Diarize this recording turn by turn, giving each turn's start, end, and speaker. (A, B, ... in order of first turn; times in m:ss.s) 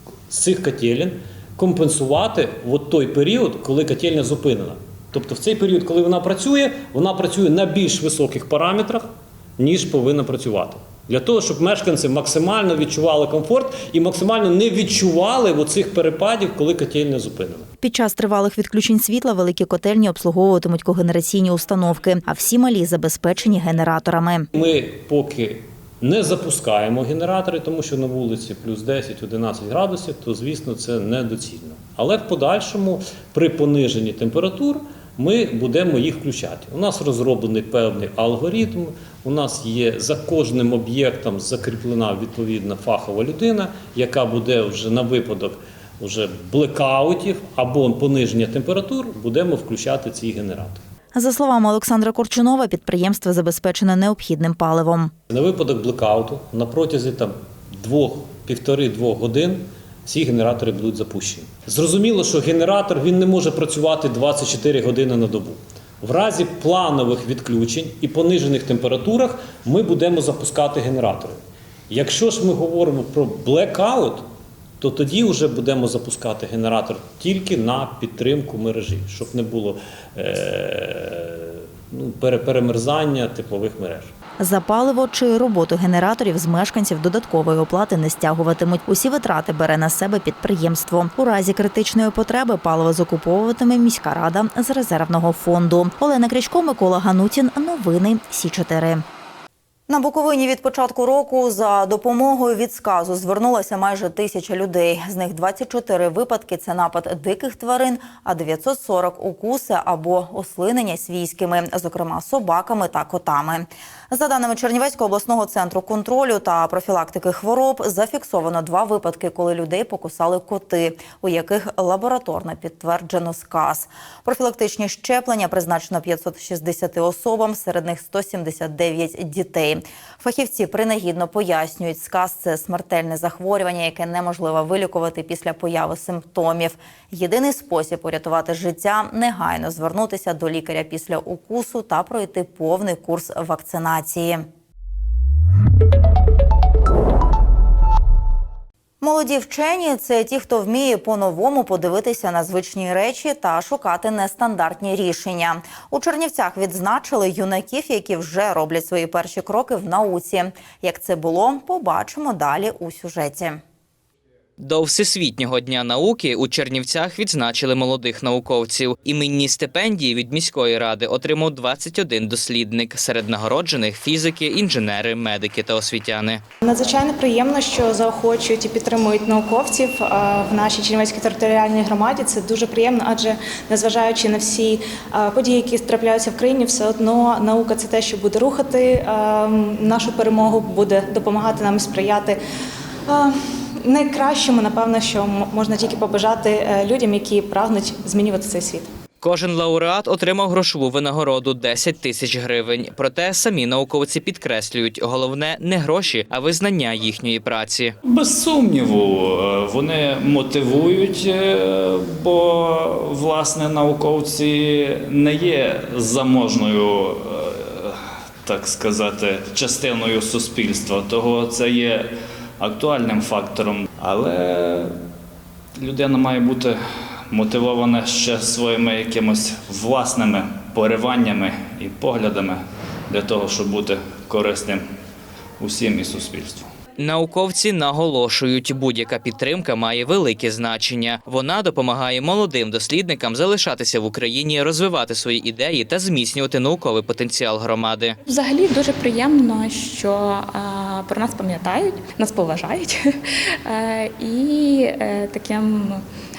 0:00.3-0:09.0 A
0:09.6-0:17.7 A
0:17.8-0:24.5 B
0:24.6-0:50.8 A
0:51.2-0:55.1 B
0:55.3-1:11.4 A
1:11.9-1:14.2 A
1:14.8-1:24.1 A
1:24.4-1:39.0 B
1:39.9-2:24.4 B
2:29.0-2:43.6 B
2:44.6-2:56.4 C
2:56.6-3:12.4 D
3:13.1-3:18.9 D
3:19.2-3:28.0 C
3:28.0-3:44.9 E
3:45.8-3:54.8 E
3:55.6-3:56.7 E
3:57.0-4:08.2 C
4:08.3-4:13.0 F
4:13.6-4:16.0 F